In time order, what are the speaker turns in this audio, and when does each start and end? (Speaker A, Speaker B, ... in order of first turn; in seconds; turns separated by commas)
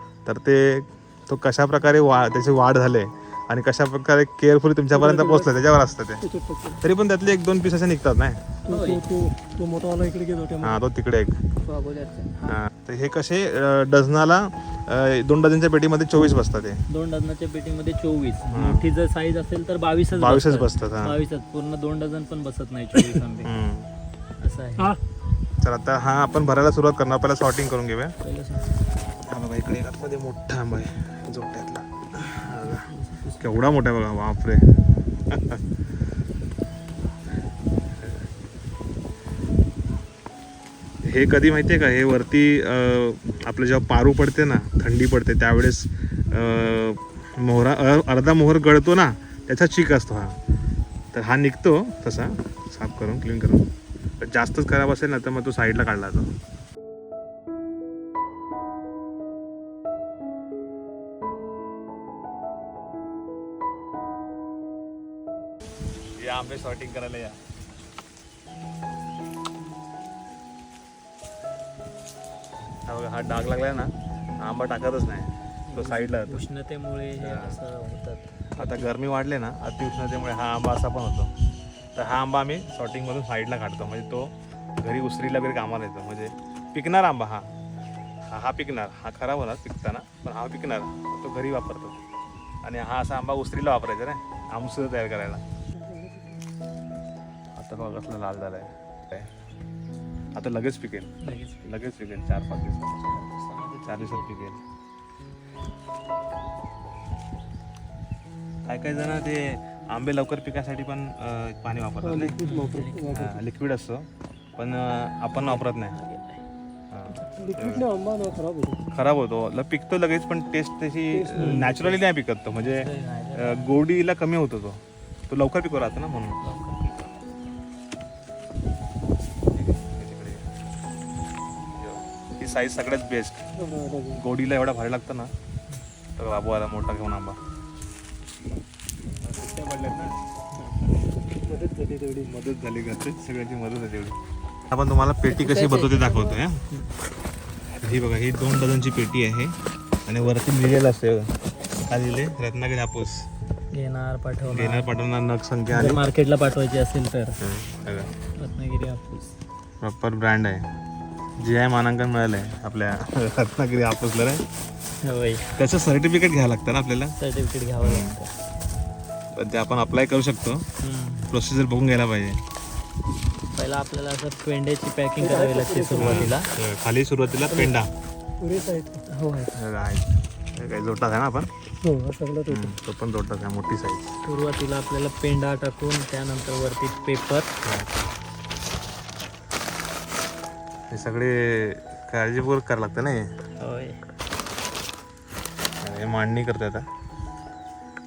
Speaker A: 0.2-6.2, Speaker B: 4.9-5.7, Speaker B: 6.2-6.8, Speaker A: 6.8-8.4, Speaker B: 8.7-10.8, Speaker C: 8.7-9.0, Speaker A: 10.6-11.4, Speaker B: 11.6-12.4, Speaker A: 12.5-16.8, Speaker C: 16.9-23.5, Speaker A: 18.4-18.9, Speaker A: 20.1-21.1, Speaker A: 23.4-23.9, Speaker C: 24.4-25.0, Speaker A: 25.6-28.1, Speaker C: 28.2-28.8, Speaker A: 29.3-32.9, Speaker C: 32.4-33.5, Speaker A: 33.4-34.7, Speaker A: 35.2-35.6, Speaker A: 41.0-50.4, Speaker A: 51.1-53.7, Speaker A: 54.2-56.3, Speaker A: 66.2-67.4, Speaker A: 72.9-76.5, Speaker C: 75.7-78.9, Speaker A: 77.2-77.6, Speaker A: 78.5-81.3, Speaker A: 81.9-87.5, Speaker A: 88.3-92.0, Speaker A: 92.6-95.4, Speaker B: 95.7-96.4, Speaker A: 97.6-99.3, Speaker A: 100.3-103.2, Speaker C: 101.2-101.7, Speaker C: 103.0-104.3, Speaker A: 103.9-104.6, Speaker A: 108.7-112.4, Speaker B: 112.0-113.4, Speaker C: 112.4-113.1, Speaker A: 113.1-116.0, Speaker C: 115.3-116.4, Speaker A: 116.9-117.8, Speaker B: 117.3-118.8, Speaker A: 118.9-126.4, Speaker B: 121.1-122.0, Speaker C: 121.4-121.7, Speaker C: 122.5-123.7, Speaker C: 126.4-127.0, Speaker A: 129.5-130.4, Speaker A: 131.8-133.4, Speaker B: 133.5-134.2, Speaker A: 134.1-135.3, Speaker A: 136.2-137.4, Speaker A: 139.2-140.1, Speaker B: 141.3-142.3, Speaker A: 142.2-144.2, Speaker A: 144.7-146.6, Speaker C: 145.4-145.8, Speaker A: 147.7-153.3, Speaker C: 153.7-154.8, Speaker A: 154.5-156.0, Speaker C: 155.7-157.4, Speaker A: 157.4-158.1, Speaker C: 158.4-159.3, Speaker A: 159.8-160.7, Speaker A: 161.4-164.4, Speaker C: 165.0-165.5, Speaker A: 165.6-167.2, Speaker C: 167.2-168.3, Speaker A: 167.8-168.2, Speaker A: 169.3-170.7, Speaker C: 170.8-171.3, Speaker A: 171.3-172.4, Speaker C: 173.5-176.5, Speaker B: 175.2-176.3, Speaker A: 176.0-177.9, Speaker B: 178.4-179.0, Speaker C: 179.1-179.5, Speaker A: 179.5-181.5, Speaker B: 181.8-182.7, Speaker A: 182.5-184.1, Speaker C: 184.2-187.5, Speaker A: 187.6-188.1, Speaker A: 190.9-193.3, Speaker C: 193.6-194.0, Speaker A: 195.8-196.8